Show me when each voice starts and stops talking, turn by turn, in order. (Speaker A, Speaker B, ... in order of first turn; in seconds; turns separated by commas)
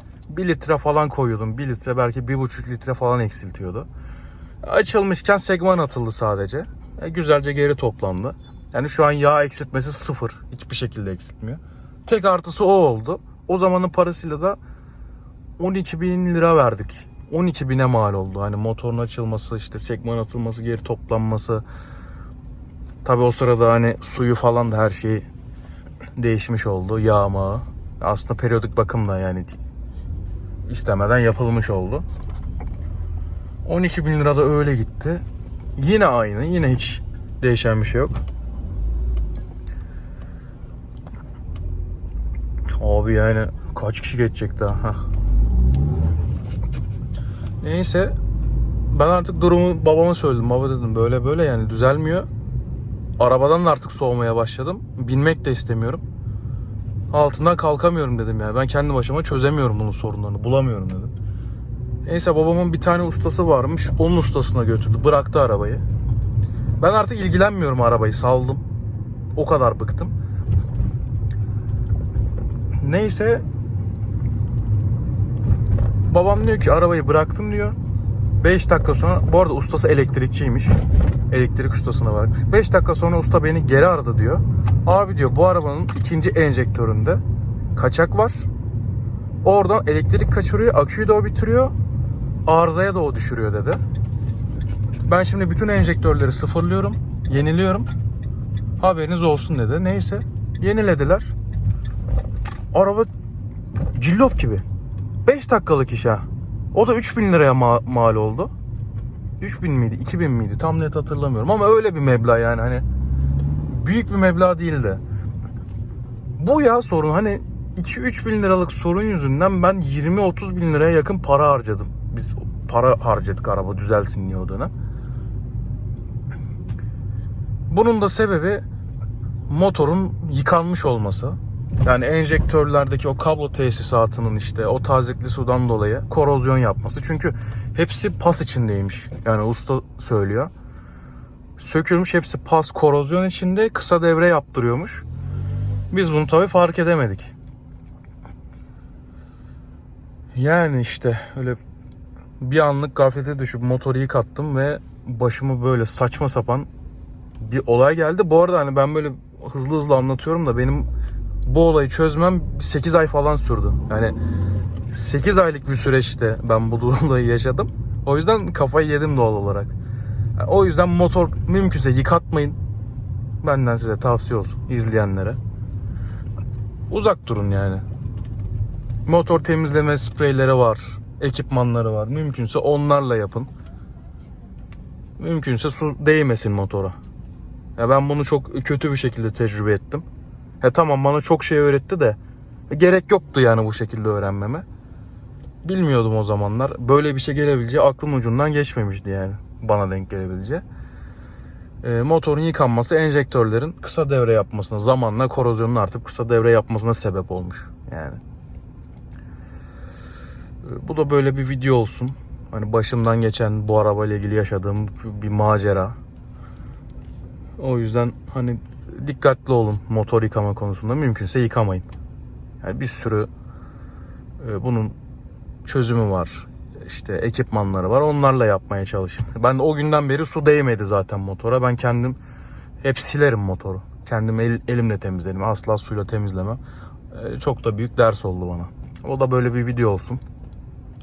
Speaker A: 0.3-3.9, Speaker A: 4.6-14.6, Speaker A: 15.6-21.6, Speaker A: 23.0-25.3, Speaker A: 26.2-29.6, Speaker A: 30.7-32.0, Speaker A: 33.6-35.2, Speaker A: 35.8-38.2, Speaker A: 42.8-45.0, Speaker A: 47.6-48.1, Speaker A: 48.9-52.3, Speaker A: 53.2-56.0, Speaker A: 57.1-61.1, Speaker A: 62.0-65.8, Speaker A: 66.8-68.6, Speaker A: 69.3-70.1, Speaker A: 72.8-73.4, Speaker A: 76.1-77.8, Speaker A: 78.4-80.8, Speaker A: 81.3-87.2, Speaker A: 87.7-88.5, Speaker A: 89.4-91.7, Speaker A: 92.5-93.8, Speaker A: 95.0-97.9, Speaker A: 98.8-101.3, Speaker A: 102.7-103.1, Speaker A: 103.9-104.6, Speaker A: 105.2-108.5, Speaker A: 109.4-112.8, Speaker A: 113.7-115.0, Speaker A: 116.4-124.7, Speaker A: 127.7-128.6, Speaker A: 129.5-140.5, Speaker A: 141.6-145.0, Speaker A: 145.9-147.3, Speaker A: 150.3-151.6, Speaker A: 152.4-156.7, Speaker A: 157.4-160.9, Speaker A: 161.4-164.2, Speaker A: 164.9-169.7, Speaker A: 170.4-172.6, Speaker A: 173.4-175.4, Speaker A: 176.9-177.8, Speaker A: 179.1-183.5, Speaker A: 185.2-186.9, Speaker A: 187.8-190.0, Speaker A: 190.6-192.2, Speaker A: 192.7-194.6, Speaker A: 195.6-200.6, Speaker A: 201.8-208.2, Speaker A: 210.6-216.0, Speaker A: 217.6-221.9, Speaker A: 222.6-223.3, Speaker A: 224.4-224.9, Speaker A: 225.6-232.2, Speaker A: 232.8-236.6, Speaker A: 237.1-240.2